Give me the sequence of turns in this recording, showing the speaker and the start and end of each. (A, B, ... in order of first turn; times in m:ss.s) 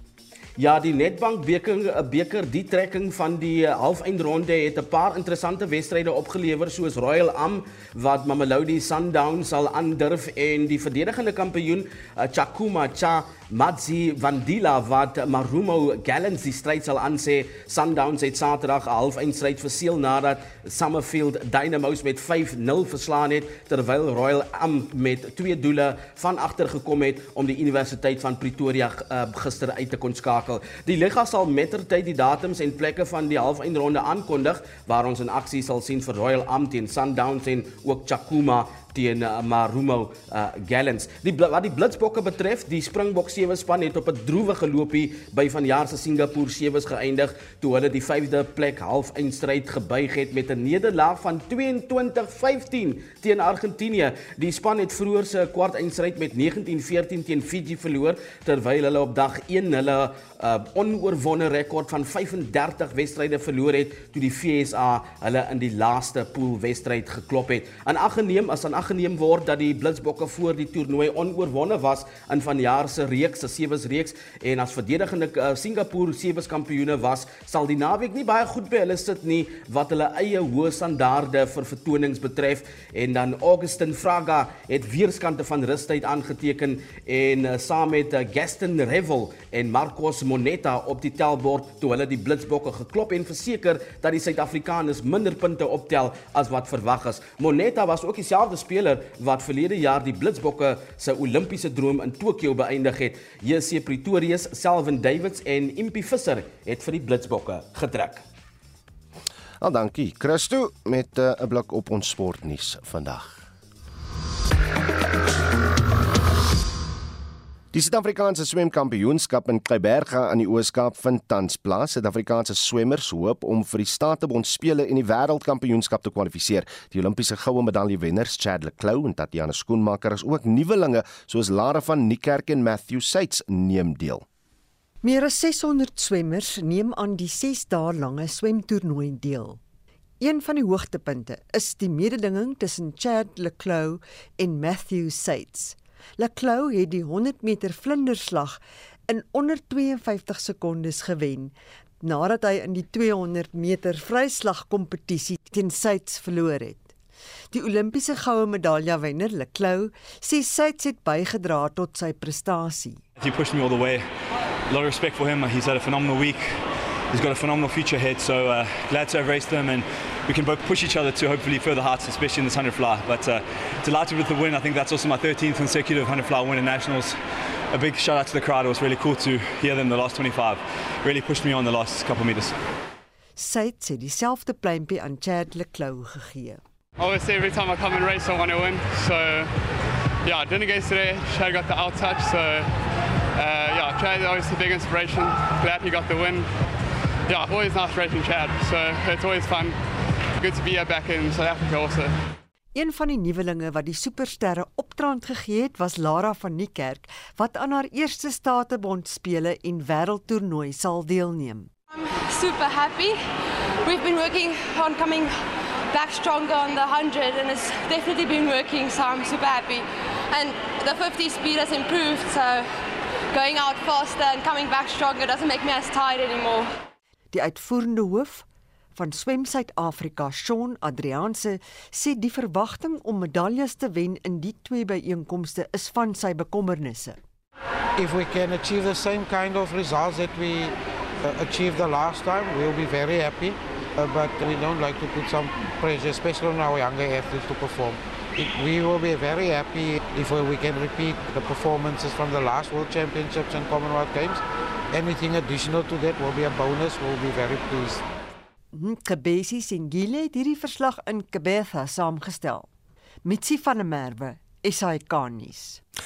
0:00.6-1:48.2 A
1:49.6-1:53.5 B
1:57.7-2:14.2 B
2:15.0-2:19.6 C
2:20.2-2:36.9 C
2:37.5-2:43.0 C
2:43.2-2:44.0 D
2:44.7-2:46.6 D
2:47.1-2:57.2 D
2:57.7-3:02.6 D
3:03.4-3:06.6 C
3:07.0-3:09.5 E
3:10.2-3:12.7 E
3:13.4-3:16.5 E
3:17.3-3:19.8 E
3:20.4-3:22.1 E
3:22.7-3:31.7 C
3:31.9-3:33.2 F
3:33.8-3:35.3 F
3:35.9-3:42.7 F
3:43.3-3:46.7 F
3:47.3-3:57.2 C
3:58.0-4:00.7 G
4:01.3-4:18.0 G
4:18.7-4:22.7 C
4:23.2-4:25.8 C